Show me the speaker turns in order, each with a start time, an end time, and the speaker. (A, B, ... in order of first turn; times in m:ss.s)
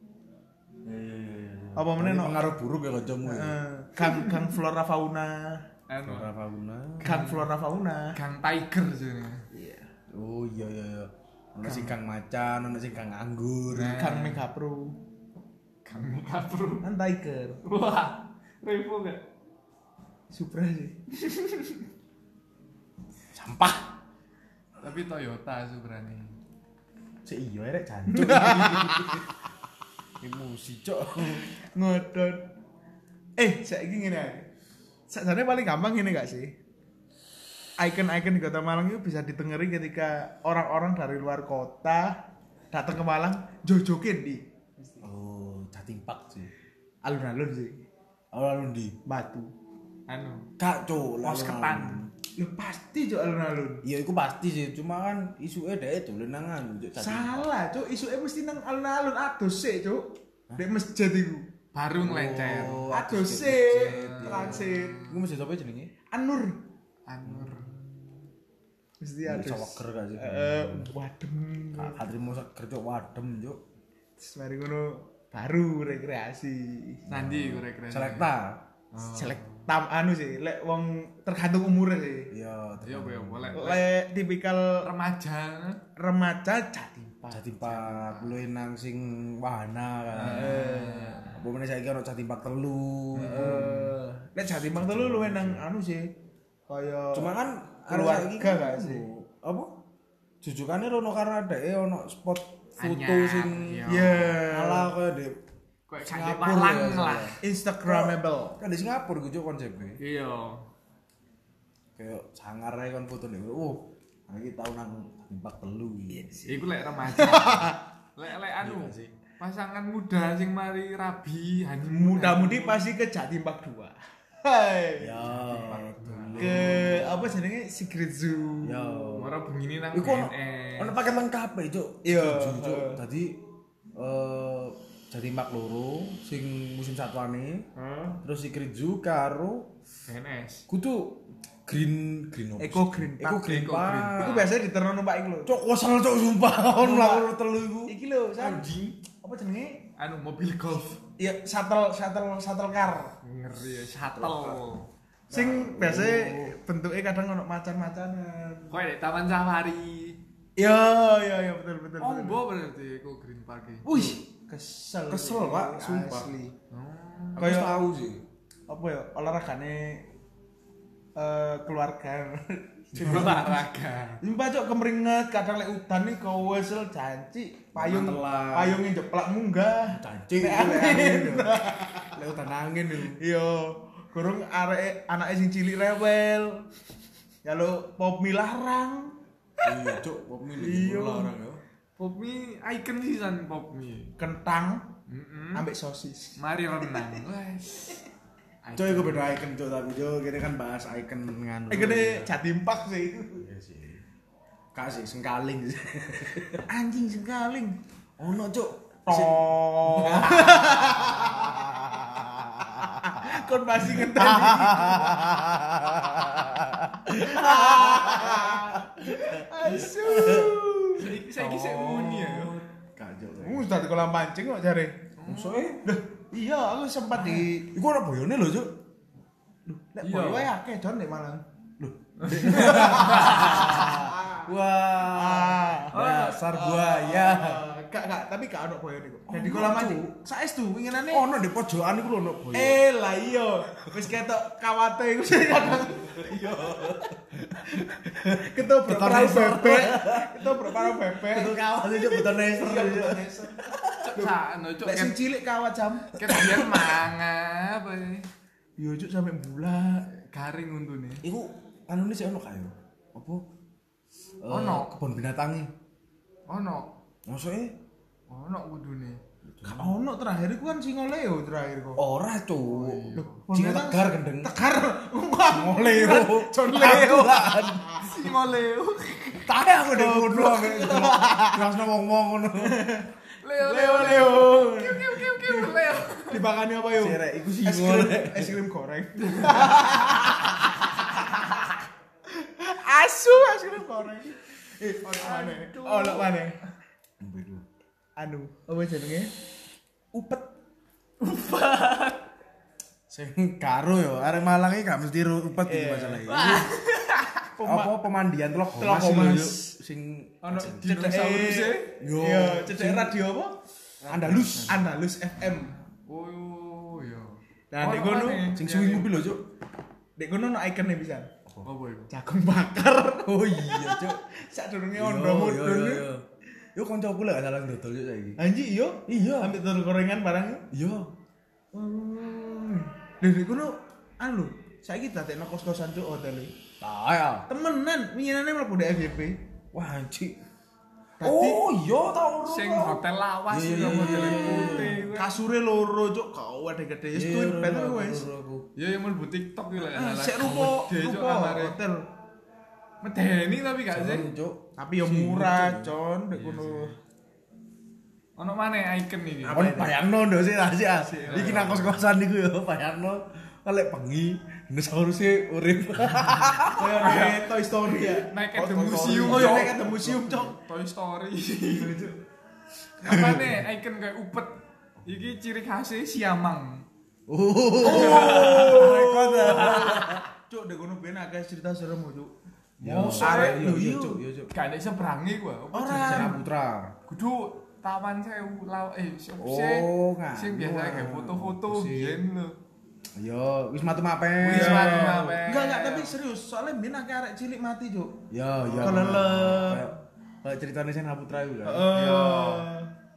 0:00.8-0:03.6 A
0:01.8-0:02.5 B
0:03.2-0:05.6 B
0:05.9-0:06.3 C
0:06.0-0:07.2 A
0:07.0-0:07.5 C
0:07.0-0:08.2 B
0:08.2-0:09.4 C
0:09.5-0:09.9 B
0:10.1-0:14.0 A
0:11.6-0:12.0 B
0:13.7-0:14.4 C
0:13.9-0:15.0 B
0:15.8-0:16.8 C
0:16.8-0:17.6 B
0:17.6-0:19.2 C
0:20.3-0:21.0 B
0:21.3-0:21.8 C
0:23.3-0:23.9 A
0:24.8-0:26.4 C
0:27.2-0:29.3 A
0:28.1-0:29.2 B
0:30.2-0:31.5 A
0:31.3-0:32.4 B
0:33.4-0:34.5 B
0:35.1-0:36.5 B
0:37.8-0:42.2 B
0:42.7-0:45.0 B
0:45.0-0:46.5 A
0:47.0-0:47.8 B
0:48.3-0:49.0 A
0:49.1-0:49.5 B
0:50.1-0:50.5 C
0:50.6-0:52.1 A
0:51.2-0:52.0 C
0:52.4-0:53.8 B
0:53.8-0:57.5 A
0:57.0-1:00.1 B
1:00.6-1:01.4 B
1:01.7-1:02.9 C
1:02.0-1:05.9 A
1:02.9-1:05.0 B
1:03.9-1:05.2 C
1:06.1-1:06.6 B
1:07.1-1:07.7 C
1:07.2-1:07.9 A
1:09.0-1:12.0 B
1:09.2-1:10.9 A
1:11.8-1:13.6 A
1:14.2-1:17.0 B
1:17.1-1:18.6 A
1:17.1-1:18.3 C
1:18.9-1:19.7 C
1:19.0-1:22.3 B
1:22.3-1:23.7 A
1:22.8-1:23.9 C
1:23.5-1:24.9 B
1:24.8-1:25.8 C
1:26.0-1:27.8 B
1:27.3-1:33.9 A
1:27.9-1:28.4 C
1:30.2-1:31.4 C
1:30.2-1:31.0 B
1:33.2-1:36.1 B
1:33.2-1:33.8 C
1:34.5-1:35.7 A
1:36.7-1:37.3 B
1:37.1-1:39.7 A
1:37.9-1:39.1 B
1:40.4-1:45.4 A
1:42.8-1:44.4 C
1:43.9-1:44.9 B
1:45.9-1:47.4 C
1:46.0-1:50.0 A
1:47.4-1:48.6 B
1:50.0-1:50.7 C
1:52.0-1:56.6 A
1:56.4-2:02.8 C
1:57.1-1:57.8 B
1:58.6-1:59.2 A
2:01.9-2:05.3 B
2:05.0-2:07.3 A
2:05.3-2:07.0 C
2:06.4-2:09.1 B
2:08.6-2:09.3 A
2:09.1-2:11.0 C
2:09.9-2:13.4 A
2:12.0-2:13.0 B
2:14.0-2:17.7 A
2:17.8-2:18.2 B
2:18.2-2:19.7 A
2:20.1-2:20.7 C
2:20.7-2:24.4 A
2:22.6-2:23.5 B
2:23.4-2:24.5 C
2:24.2-2:25.5 B
2:25.5-2:28.0 A
2:26.8-2:27.3 B
2:27.9-2:28.7 B
2:28.4-2:29.0 C
2:29.2-2:29.9 B
2:30.0-2:31.0 C
2:31.2-2:33.2 B
2:33.2-2:34.9 C
2:34.2-2:34.6 A
2:35.3-2:36.5 A
2:35.3-2:38.8 B
2:38.7-2:40.2 C
2:40.6-2:42.4 B
2:42.0-2:44.1 C
2:43.8-2:46.5 B
2:45.1-2:46.3 A
2:46.7-2:47.6 C
2:47.4-2:48.3 A
2:47.4-2:47.8 B
2:48.7-2:50.0 B
2:51.2-2:53.6 B
2:53.0-2:54.2 C
2:53.0-2:53.4 A
2:54.2-3:02.2 B
2:57.8-2:58.8 A
2:59.9-3:01.6 A
3:02.1-3:03.2 A
3:03.2-3:06.6 B
3:07.4-3:09.2 B
3:09.6-3:11.6 A
3:10.6-3:11.3 B
3:12.0-3:14.1 C
3:14.2-3:14.9 B
3:15.1-3:15.7 C
3:15.5-3:17.2 B
3:16.4-3:18.0 C
3:18.6-3:19.4 C
3:18.8-3:22.3 A
3:21.7-3:23.4 B
3:23.4-3:24.0 A
3:24.7-3:26.7 A
3:26.7-3:27.8 B
3:28.2-3:40.6 A
3:29.1-3:31.9 B
3:32.6-3:35.4 B
3:37.1-3:41.2 B
3:41.0-3:42.6 C
3:41.3-3:43.7 A
3:43.4-3:45.0 B
3:45.2-3:45.7 C
3:45.2-3:45.8 A
3:45.8-3:47.7 B
3:47.2-3:48.8 A
3:49.7-3:51.4 B
3:50.0-3:50.5 C
3:51.8-3:57.6 A
3:52.2-3:54.0 C
3:52.4-3:56.0 B
3:55.9-3:56.4 C
3:56.5-4:01.3 B
3:59.3-4:00.2 A
4:01.1-4:02.8 A
4:02.5-4:07.0 B
4:05.8-4:14.1 A
4:07.7-4:14.3 B
4:14.0-4:15.2 C
4:14.8-4:16.2 B
4:16.2-4:18.3 C
4:16.2-4:17.0 A
4:18.8-4:20.1 B
4:20.2-4:21.2 C
4:21.2-4:23.4 A
4:24.4-4:25.7 A
4:24.5-4:24.9 C
4:26.5-4:26.9 C
4:27.3-4:27.7 A
4:28.3-4:29.2 C
4:29.4-4:30.0 A
4:29.6-4:32.0 B
4:32.0-4:34.5 A
4:32.6-4:33.4 C
4:33.2-4:38.3 B
4:35.5-4:38.0 A
4:38.0-4:39.5 C
4:39.4-4:42.8 A
4:39.9-4:41.7 B
4:42.6-4:51.4 B
4:43.4-4:46.4 C
4:47.0-4:48.6 A
4:49.2-4:50.2 C
4:52.4-4:56.6 B
4:55.1-4:56.3 C
4:57.2-4:57.6 A
4:58.2-4:59.3 B
5:00.1-5:00.5 B
5:01.2-5:02.2 C
5:03.1-5:06.7 A
5:05.6-5:06.3 B
5:06.3-5:07.5 C
5:07.6-5:07.9 B
5:07.6-5:10.9 A
5:08.8-5:09.7 B
5:10.4-5:11.9 C
5:10.8-5:13.5 B
5:12.0-5:13.2 A
5:14.0-5:14.9 C
5:14.1-5:14.8 A
5:14.1-5:15.7 B
5:15.4-5:19.0 C
5:17.7-5:18.9 B
5:18.5-5:19.4 A
5:20.2-5:21.3 B
5:21.6-5:22.1 C
5:22.1-5:26.0 B
5:23.3-5:24.2 A
5:25.0-5:28.4 A
5:28.4-5:30.7 B
5:29.1-5:29.5 A
5:30.7-5:31.1 A
5:31.7-5:36.5 B
5:36.8-5:37.5 A
5:37.5-5:39.4 B
5:39.7-5:40.4 A
5:41.2-5:41.6 B
5:41.2-5:45.1 A
5:42.4-5:45.3 C
5:43.8-5:48.3 B
5:47.1-5:48.7 A
5:48.8-5:51.8 C
5:49.8-5:52.0 B
5:53.0-5:54.3 C
5:53.9-5:55.9 A
5:54.8-5:57.0 B
5:56.3-5:57.0 C
5:58.4-5:59.9 C
5:59.4-6:07.0 A
5:59.5-5:59.9 B
6:01.1-6:01.7 B
6:01.2-6:02.0 C
6:06.7-6:10.6 B
6:07.0-6:12.0 C
6:08.8-6:09.9 A
6:11.7-6:12.2 B
6:13.0-6:16.9 C
6:13.1-6:13.6 A
6:17.3-6:20.2 A
6:17.8-6:20.2 C
6:17.8-6:22.3 B
6:22.8-6:24.5 A
6:22.8-6:23.7 C
6:23.0-6:24.2 B
6:24.5-6:26.4 C
6:25.7-6:26.4 B
6:25.9-6:26.9 A
6:27.1-6:32.6 C
6:29.4-6:32.2 A
6:33.2-6:35.4 A
6:34.4-6:36.2 C
6:34.5-6:38.2 B
6:38.3-6:41.9 A
6:38.8-6:39.1 C
6:38.8-6:39.9 B
6:41.6-6:42.9 B
6:41.9-6:42.7 C